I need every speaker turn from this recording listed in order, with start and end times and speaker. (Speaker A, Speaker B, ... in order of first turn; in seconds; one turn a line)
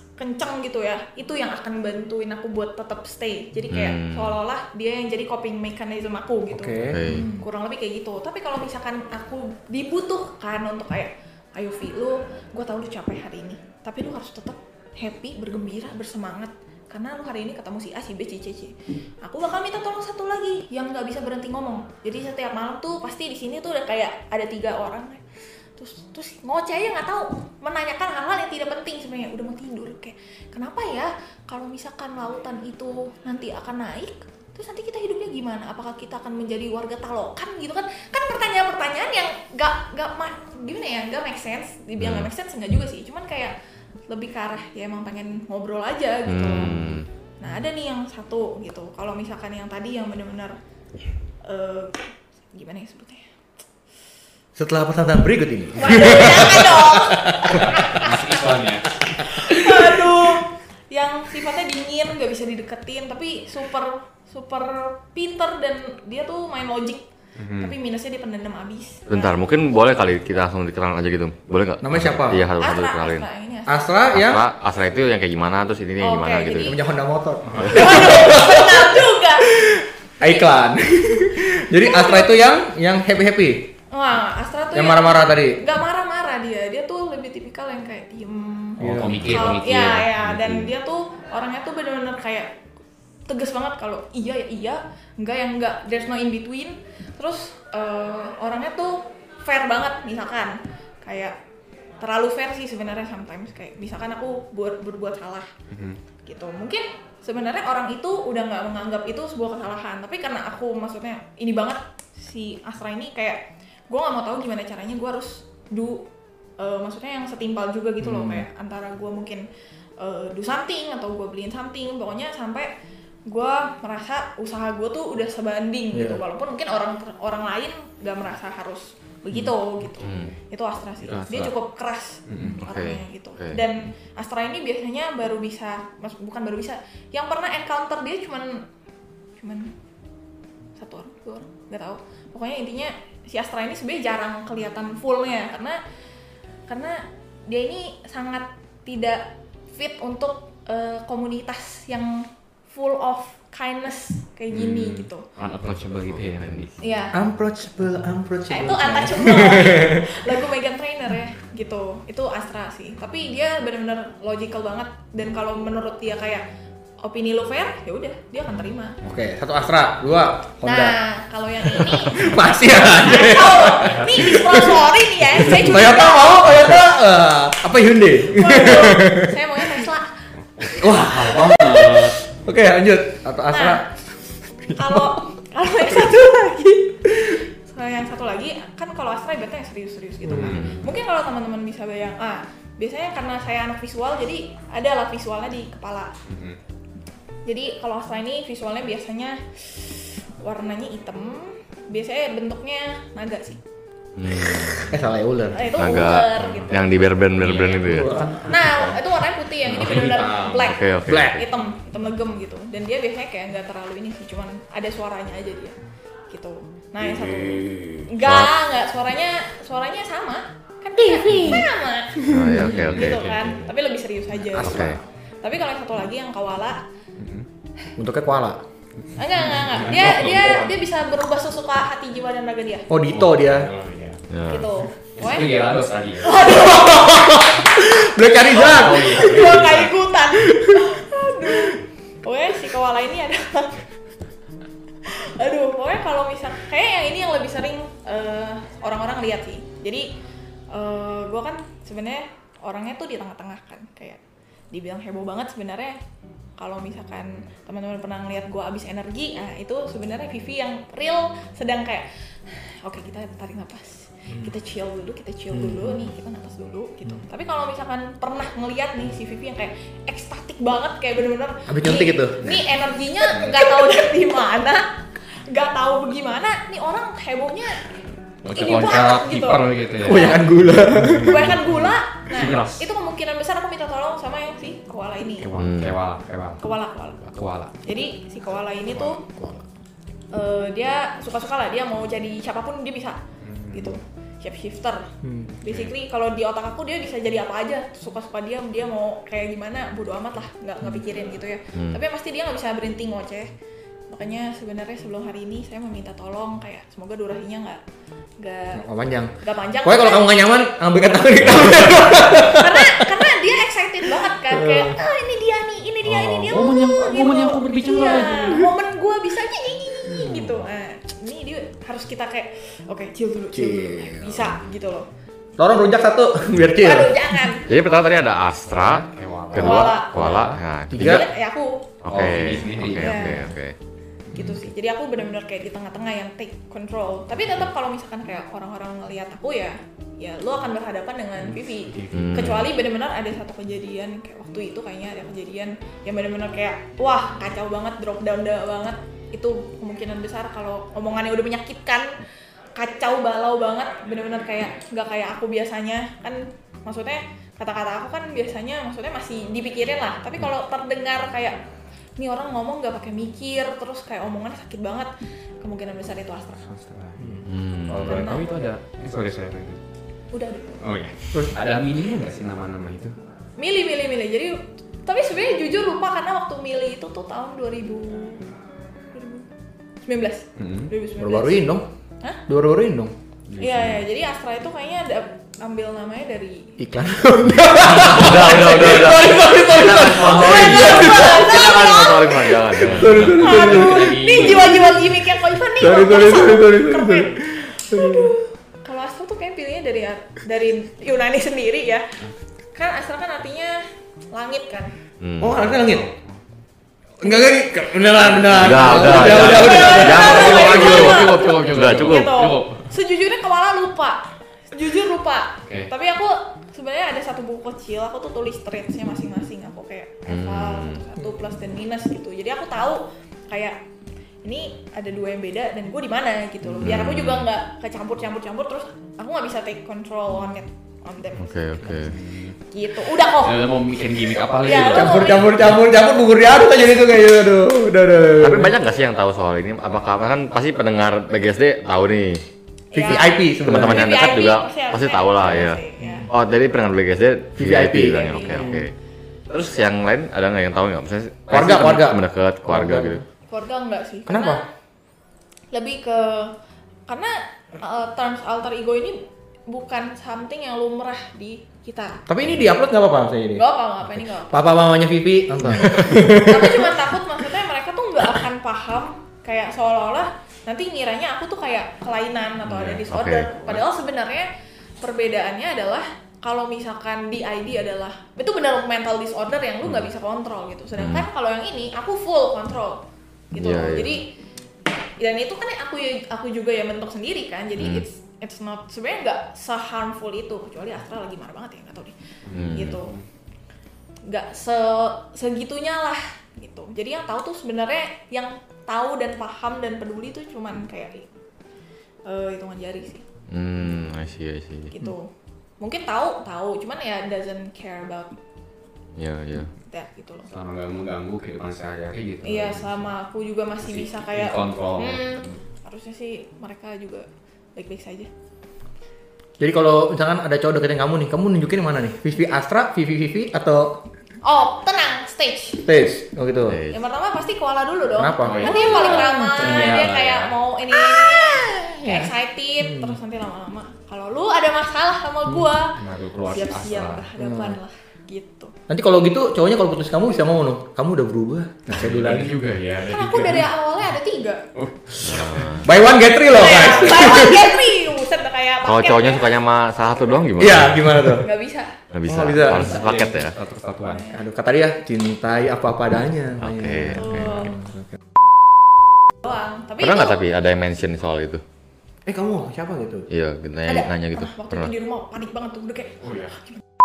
Speaker A: 0.2-25.2
Speaker B: 3.7-4.3
Speaker C: 6.5-7.4
Speaker B: 6.9-7.3
Speaker A: 25.8-43.5
Speaker B: 42.0-42.3
Speaker A: 44.1-50.5
Speaker B: 46.3-47.0
Speaker A: 51.5-53.2
Speaker C: 54.6-58.0
Speaker A: 55.8-58.3
Speaker D: 57.5-59.2
Speaker A: 59.2-69.8
Speaker D: 67.4-67.7
Speaker B: 69.1-73.3
Speaker C: 71.8-72.5
Speaker A: 72.6-73.9
Speaker C: 73.7-74.4
Speaker B: 74.1-76.8
Speaker A: 76.0-76.8
Speaker C: 76.6-79.0
Speaker A: 77.7-79.5
Speaker C: 79.5-83.7
Speaker A: 80.2-80.5
Speaker A: 81.8-82.4
Speaker A: 83.9-92.5
Speaker C: 84.7-85.6
Speaker D: 88.8-90.7
Speaker C: 88.8-89.3
Speaker A: 93.3-101.3
Speaker A: 102.0-105.5
Speaker D: 105.7-106.0
Speaker A: 106.3-116.0
Speaker A: 116.6-119.4
Speaker C: 118.0-118.5
Speaker A: 120.0-122.7
Speaker A: 123.3-138.6
Speaker C: 125.9-126.2
Speaker B: 130.0-130.3
Speaker D: 131.0-131.5
Speaker D: 132.3-132.6
Speaker B: 132.6-133.6
Speaker A: 139.4-139.7
Speaker A: 140.8-145.8
Speaker A: 146.7-155.2
Speaker D: 154.5-156.7
Speaker B: 156.1-156.7
Speaker A: 156.8-157.2
Speaker C: 157.1-159.9
Speaker A: 158.5-166.4
Speaker A: 167.0-169.0
Speaker C: 169.1-171.0
Speaker A: 170.6-176.8
Speaker C: 171.6-174.8
Speaker D: 173.8-174.1
Speaker C: 175.4-179.3
Speaker A: 178.3-180.1
Speaker D: 180.6-182.1
Speaker C: 180.7-185.2
Speaker A: 183.5-183.8
Speaker A: 184.8-196.1
Speaker C: 190.3-190.6
Speaker D: 190.3-190.8
Speaker B: 190.6-190.8
Speaker D: 196.3-196.6
Speaker A: 197.5-203.6
Speaker B: 204.2-204.8
Speaker C: 204.5-205.7
Speaker A: 205.5-207.2
Speaker B: 205.8-208.2
Speaker D: 206.3-206.8
Speaker D: 207.3-210.8
Speaker C: 207.9-208.3
Speaker A: 208.4-215.8
Speaker B: 210.6-211.4
Speaker C: 211.1-211.4
Speaker A: 216.3-226.8
Speaker B: 218.2-218.5
Speaker C: 221.1-221.6
Speaker B: 222.3-223.3
Speaker D: 222.6-223.7
Speaker C: 224.6-225.0
Speaker B: 224.6-225.0
Speaker D: 227.2-227.5
Speaker C: 228.0-228.6
Speaker D: 229.0-230.7
Speaker A: 229.2-232.9
Speaker C: 232.9-233.7
Speaker D: 233.1-234.2
Speaker B: 234.3-234.7
Speaker A: 234.5-235.5
Speaker D: 235.2-236.5
Speaker A: 236.2-237.7
Speaker C: 236.5-239.6
Speaker A: 238.5-243.9
Speaker D: 238.5-239.9
Speaker C: 240.5-240.8
Speaker A: 245.1-250.1
Speaker A: 250.7-254.2
Speaker A: 254.7-255.9
Speaker A: 256.6-274.8
Speaker C: 264.3-264.6
Speaker C: 265.5-266.1
Speaker C: 271.7-272.6
Speaker A: 275.5-277.9
Speaker D: 278.4-281.7
Speaker A: 278.5-280.4
Speaker C: 280.0-281.6
Speaker A: 281.2-285.5
Speaker D: 282.3-282.9
Speaker D: 285.3-286.6
Speaker B: 285.6-286.0
Speaker A: 286.6-287.2
Speaker D: 287.2-287.8
Speaker A: 287.8-289.2
Speaker A: 290.3-293.2
Speaker D: 293.4-294.0
Speaker A: 293.7-295.1
Speaker C: 295.2-295.6
Speaker A: 295.6-303.5
Speaker D: 295.6-295.9
Speaker B: 301.8-302.0
Speaker A: 304.1-307.8
Speaker A: 308.4-308.8
Speaker C: 308.8-313.1
Speaker A: 309.4-310.4
Speaker A: 311.9-325.1
Speaker C: 314.5-315.0
Speaker D: 316.2-318.7
Speaker D: 320.1-320.5
Speaker C: 323.5-324.5
Speaker C: 325.6-327.4
Speaker A: 326.8-327.7
Speaker B: 327.7-331.2
Speaker D: 328.7-330.6
Speaker A: 329.6-330.4
Speaker C: 330.9-331.2
Speaker A: 331.0-331.8
Speaker B: 332.0-333.8
Speaker D: 332.1-333.5
Speaker A: 333.0-333.5
Speaker D: 334.3-334.6
Speaker A: 334.3-352.1
Speaker D: 341.4-342.6
Speaker B: 342.1-342.7
Speaker A: 352.8-361.6
Speaker A: 362.2-365.1
Speaker A: 365.6-366.7
Speaker D: 366.7-369.8
Speaker B: 367.4-368.4
Speaker A: 368.0-368.5
Speaker A: 370.3-370.8
Speaker D: 370.8-373.2
Speaker A: 373.6-374.6
Speaker A: 375.1-378.5
Speaker A: 379.1-379.5
Speaker A: 380.1-381.7
Speaker D: 380.6-380.9
Speaker C: 381.2-381.9
Speaker C: 382.5-383.1
Speaker D: 383.5-384.0
Speaker A: 383.6-387.5
Speaker C: 386.8-391.5
Speaker B: 388.1-393.3
Speaker A: 390.2-402.1
Speaker C: 392.8-394.1
Speaker D: 392.9-394.9
Speaker C: 395.8-398.4
Speaker A: 402.8-403.8
Speaker A: 404.3-404.9
Speaker B: 405.2-405.6
Speaker C: 405.4-406.1
Speaker D: 405.6-406.4
Speaker A: 407.2-407.6
Speaker C: 407.2-410.7
Speaker D: 408.2-412.9
Speaker B: 408.6-412.4
Speaker A: 408.9-423.8
Speaker D: 415.6-415.9
Speaker B: 420.3-421.0
Speaker A: 424.4-431.9
Speaker B: 426.8-427.5
Speaker B: 431.4-432.2
Speaker D: 432.1-432.6
Speaker A: 432.7-433.6
Speaker D: 433.4-435.8
Speaker A: 434.6-435.5
Speaker C: 434.9-438.7
Speaker B: 438.4-442.4
Speaker A: 442.9-446.3
Speaker C: 443.0-444.1
Speaker B: 443.0-448.9
Speaker C: 445.6-446.3
Speaker C: 447.6-448.9
Speaker A: 448.1-448.7
Speaker B: 449.5-453.2
Speaker C: 451.5-453.2
Speaker A: 453.5-454.6
Speaker C: 454.3-454.6
Speaker A: 455.7-456.5
Speaker A: 457.1-459.2
Speaker A: 459.7-462.2
Speaker C: 462.3-463.6
Speaker B: 462.4-462.7
Speaker A: 463.6-464.7
Speaker C: 464.5-466.5
Speaker A: 465.8-474.5
Speaker B: 465.9-466.2
Speaker D: 472.7-473.0
Speaker B: 473.1-473.5
Speaker A: 475.0-483.0
Speaker B: 481.0-481.3
Speaker A: 483.5-484.3
Speaker B: 483.6-484.2
Speaker A: 485.2-492.1
Speaker B: 487.8-488.0
Speaker D: 492.5-493.2
Speaker B: 492.5-493.0
Speaker A: 492.7-493.1
Speaker A: 494.3-501.3
Speaker A: 502.3-503.2
Speaker B: 503.5-504.9
Speaker A: 504.9-505.3
Speaker A: 505.8-508.4
Speaker B: 509.2-509.7
Speaker A: 509.9-510.5
Speaker D: 510.5-513.1
Speaker A: 512.4-518.3
Speaker D: 513.8-515.6
Speaker C: 519.6-523.9
Speaker A: 524.4-525.8
Speaker C: 525.9-526.8
Speaker B: 526.7-527.0
Speaker A: 526.9-538.7
Speaker C: 528.2-530.1
Speaker D: 528.4-530.5
Speaker C: 531.8-532.3
Speaker C: 532.8-533.2
Speaker D: 536.0-537.3
Speaker C: 537.4-537.8
Speaker C: 538.9-542.5
Speaker D: 541.9-543.7
Speaker A: 543.1-544.6
Speaker D: 544.8-545.9
Speaker B: 545.2-545.9
Speaker C: 545.8-547.6
Speaker A: 546.5-550.4
Speaker B: 548.8-551.1
Speaker C: 550.6-551.5
Speaker A: 551.4-552.0
Speaker B: 552.1-553.5
Speaker C: 552.3-552.9
Speaker D: 552.6-554.2
Speaker A: 554.1-554.4
Speaker C: 554.3-558.1
Speaker B: 556.6-557.6
Speaker A: 557.1-557.8
Speaker A: 559.4-560.4
Speaker B: 560.0-561.6
Speaker C: 562.3-563.3
Speaker B: 563.3-564.9
Speaker A: 563.9-566.7
Speaker D: 566.2-566.5